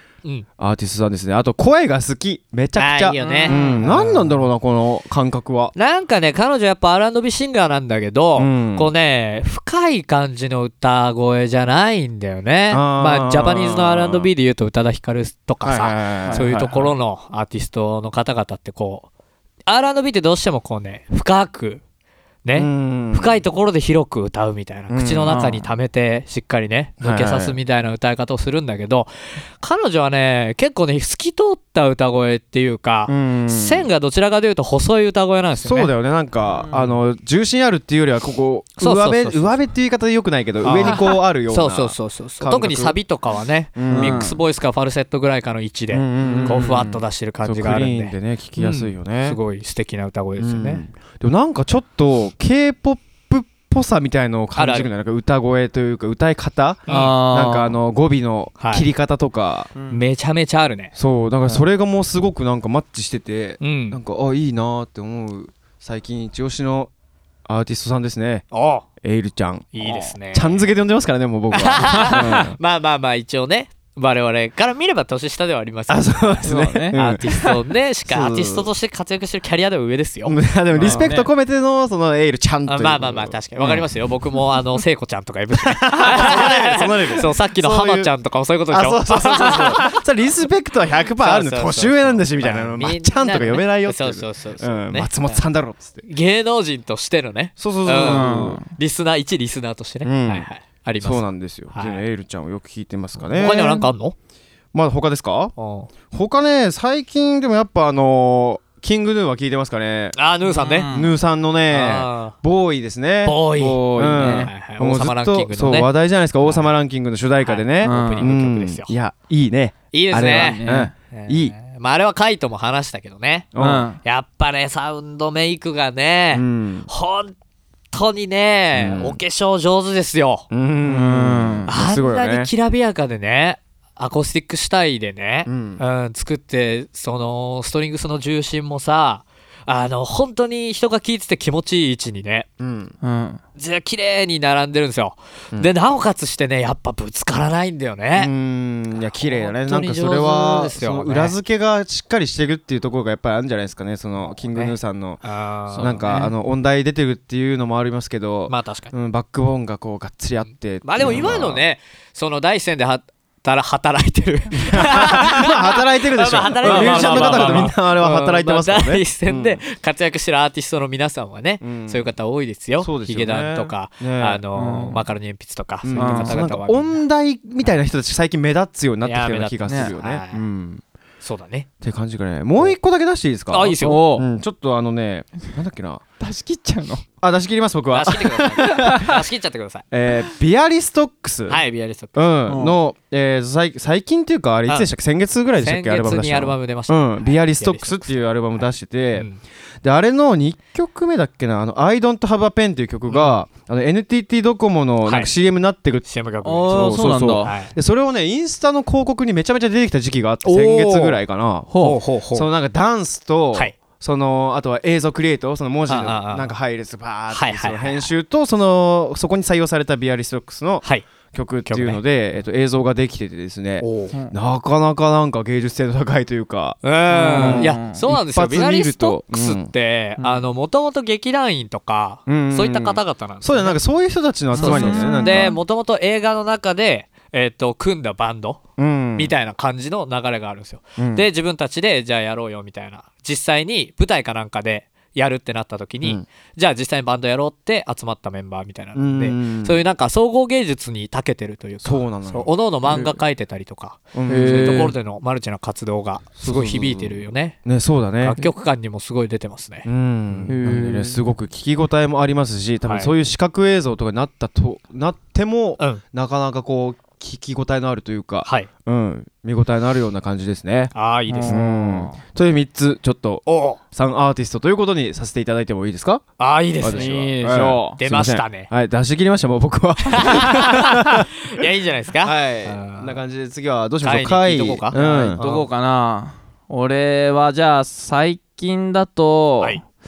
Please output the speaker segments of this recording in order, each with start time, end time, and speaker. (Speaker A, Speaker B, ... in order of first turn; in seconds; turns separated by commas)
Speaker A: 0.6-5.7, Speaker B: 2.8-4.3, Speaker C: 3.2-3.9, Speaker B: 5.8-19.1, Speaker A: 8.4-8.9, Speaker A: 12.7-14.3, Speaker A: 15.6-16.8, Speaker C: 16.2-16.9, Speaker B: 19.7-21.8, Speaker B: 22.4-35.9, Speaker A: 22.6-23.4, Speaker A: 24.9-25.4, Speaker C: 25.3-25.6, Speaker A: 27.0-27.6, Speaker A: 33.1-33.9, Speaker A: 35.6-43.0, Speaker C: 36.5-36.9, Speaker B: 38.8-39.7, Speaker B: 40.6-50.8, Speaker A: 43.8-44.2, Speaker C: 43.9-44.4, Speaker A: 45.9-49.4, Speaker C: 46.2-46.8, Speaker A: 50.4-59.7, Speaker B: 54.6-54.9, Speaker B: 56.9-57.1, Speaker C: 56.9-57.8, Speaker B: 58.6-58.9, Speaker C: 59.8-60.0, Speaker B: 59.9-60.9, Speaker A: 61.0-66.9, Speaker B: 63.6-64.0, Speaker A: 67.5-68.5, Speaker B: 68.5-68.8, Speaker A: 69.0-72.6, Speaker B: 69.7-70.7, Speaker B: 71.5-81.0, Speaker C: 71.8-72.4, Speaker A: 75.9-77.5, Speaker C: 76.4-77.0, Speaker A: 78.1-78.7, Speaker A: 80.2-83.9, Speaker C: 80.7-81.3, Speaker B: 82.7-89.9, Speaker A: 85.6-88.1, Speaker A: 88.7-96.0, Speaker B: 91.2-95.4, Speaker B: 96.0-102.0, Speaker A: 97.6-98.6, Speaker C: 97.9-98.7, Speaker A: 100.0-100.5, Speaker A: 101.0-103.9, Speaker B: 103.2-104.2, Speaker A: 104.7-105.5, Speaker B: 105.6-105.9, Speaker A: 106.1-110.2, Speaker B: 110.2-110.9, Speaker C: 110.5-111.1, Speaker A: 110.9-113.4, Speaker B: 111.7-112.3, Speaker B: 113.2-115.9, Speaker C: 113.6-114.5, Speaker A: 113.9-121.5, Speaker B: 117.4-118.9, Speaker C: 117.8-118.3, Speaker B: 119.9-127.3, Speaker C: 120.2-120.9, Speaker A: 123.5-123.9, Speaker C: 123.6-124.0, Speaker A: 126.3-126.9, Speaker B: 127.9-130.5, Speaker A: 128.7-129.2, Speaker A: 130.5-132.5, Speaker C: 130.9-131.7, Speaker B: 131.7-142.5, Speaker A: 135.5-135.8, Speaker A: 142.6-142.9, Speaker C: 143.0-143.4, Speaker B: 143.6-148.3, Speaker A: 148.2-155.2, Speaker B: 149.0-151.4, Speaker B: 154.5-156.3, Speaker C: 155.7-156.3, Speaker A: 155.8-161.6, Speaker B: 158.5-158.9, Speaker B: 160.8-177.0, Speaker A: 164.6-169.6, Speaker C: 166.6-167.7, Speaker A: 171.6-172.1, Speaker A: 172.8-174.4, Speaker C: 174.5-175.0, Speaker A: 175.8-180.8, Speaker C: 175.9-176.4, Speaker B: 179.0-180.4, Speaker C: 179.7-179.9, Speaker B: 181.2-181.7, Speaker A: 181.8-186.0, Speaker B: 183.5-184.1, Speaker C: 183.8-184.2, Speaker C: 186.2-187.0, Speaker A: 187.2-189.2, Speaker B: 187.9-189.8, Speaker A: 189.9-191.6, Speaker B: 191.5-192.3, Speaker A: 192.2-199.3, Speaker C: 192.5-192.8, Speaker B: 195.6-198.2, Speaker B: 199.2-199.4, Speaker A: 199.8-206.1, Speaker B: 203.1-203.4, Speaker B: 205.1-205.3, Speaker B: 206.1-207.7, Speaker C: 206.4-207.5, Speaker A: 206.7-211.7, Speaker B: 210.4-211.2, Speaker C: 211.7-212.0, Speaker B: 211.8-212.5, Speaker A: 212.3-226.8, Speaker B: 215.9-216.5, Speaker B: 217.3-218.1, Speaker B: 220.8-221.1, Speaker B: 221.7-222.0, Speaker B: 223.8-224.1, Speaker B: 226.8-233.8, Speaker C: 227.1-228.0, Speaker A: 227.3-229.7, Speaker C: 230.2-230.5, Speaker A: 232.3-235.6, Speaker C: 234.5-235.6, Speaker B: 234.5-238.6, Speaker A: 238.8-239.3, Speaker B: 239.2-257.6, Speaker A: 241.0-241.3, Speaker A: 248.9-249.8, Speaker A: 251.8-252.5, Speaker A: 254.1-254.9, Speaker C: 254.3-254.9, Speaker A: 256.4-258.4, Speaker B: 258.2-260.5, Speaker A: 259.9-270.9, Speaker C: 260.5-261.2, Speaker B: 262.8-263.1, Speaker B: 270.9-271.6, Speaker C: 271.3-272.2, Speaker A: 271.4-276.2, Speaker B: 273.5-273.8, Speaker B: 276.4-278.7, Speaker A: 276.8-281.3, Speaker C: 276.9-278.0, Speaker B: 280.1-283.1, Speaker A: 282.2-285.4, Speaker B: 284.0-285.7, Speaker C: 284.9-289.8